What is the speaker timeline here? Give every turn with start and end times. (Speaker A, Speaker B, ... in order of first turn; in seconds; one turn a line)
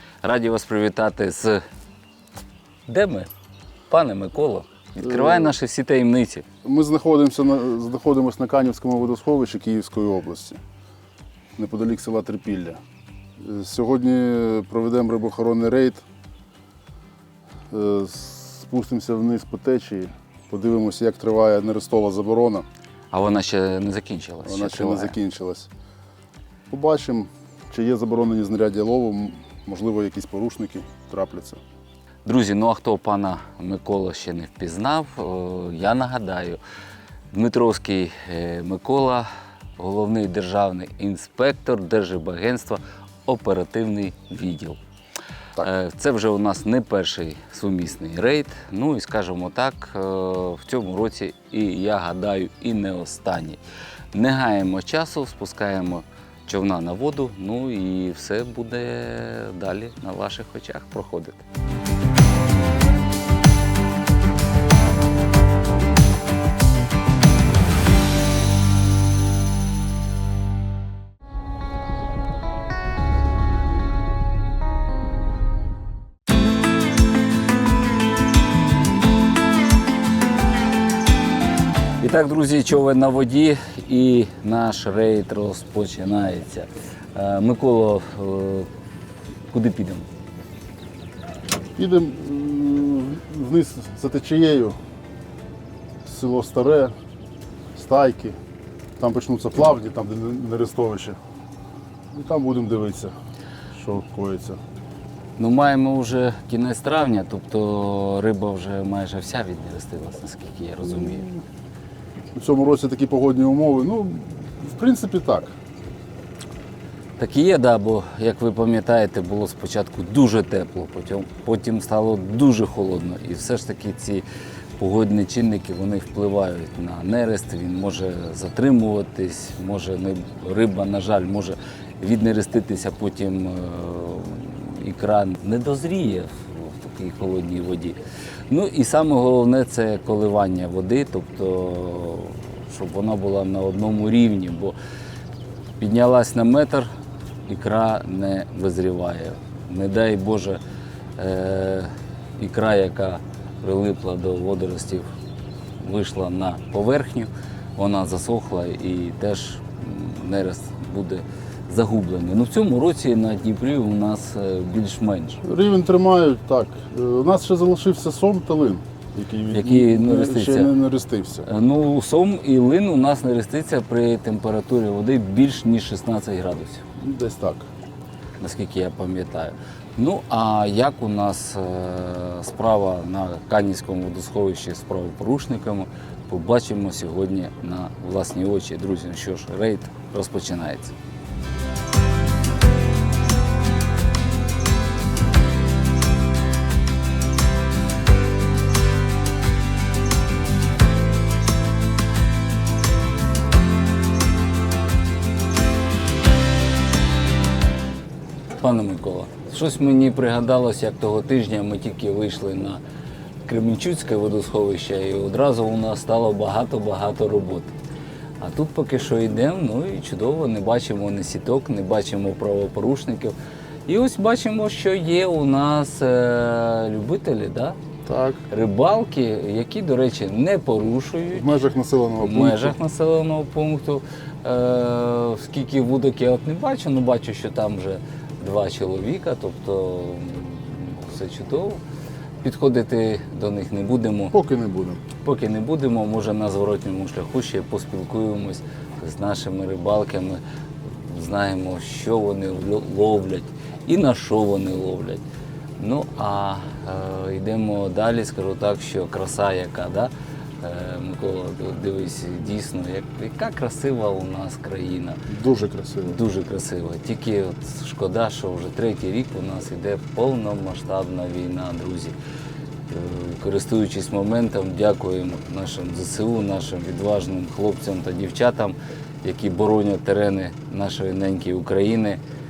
Speaker A: 0.2-1.6
Speaker A: 2.9-3.3
Speaker A: 3.9-6.5
Speaker B: 5.0-5.5
Speaker B: 6.6-10.6
Speaker B: 11.6-12.8
Speaker B: 13.4-16.0
Speaker B: 17.7-22.7
Speaker A: 23.1-25.1
Speaker B: 24.4-25.7
Speaker B: 26.7-31.6
Speaker A: 32.2-36.6
Speaker A: 37.3-44.8
Speaker A: 45.6-53.6
Speaker A: 54.1-61.4
Speaker A: 82.0-88.7
Speaker A: 89.5-90.1
Speaker B: 91.8-94.8
Speaker B: 96.0-96.9
Speaker B: 97.7-98.4
Speaker B: 99.0-101.2
Speaker B: 102.1-103.1
Speaker B: 103.7-104.6
Speaker A: 105.4-111.3
Speaker B: 111.0-111.4
Speaker B: 112.3-115.5
Speaker A: 117.2-124.2
Speaker A: 124.8-138.0
Speaker A: 138.5-144.8
Speaker A: 145.8-146.9
Speaker A: 147.5-150.6
Speaker A: 151.2-155.1
Speaker A: 155.8-165.4
Speaker B: 165.4-171.5
Speaker A: 169.5-170.7
Speaker A: 171.5-176.8
Speaker B: 177.0-177.7
Speaker A: 178.4-190.9
Speaker A: 208.6-212.8
Speaker A: 213.4-217.7
Speaker A: 218.4-223.3
Speaker A: 223.9-227.8
Speaker B: 228.1-228.4
Speaker A: 228.5-231.6
Speaker B: 231.3-232.8
Speaker A: 232.2-241.8
Speaker A: 242.4-244.3
Speaker B: 244.3-245.0
Speaker A: 245.2-255.2
Speaker A: 255.8-265.2
Speaker B: 265.3-266.2
Speaker A: 266.1-272.1
Speaker A: 272.9-282.2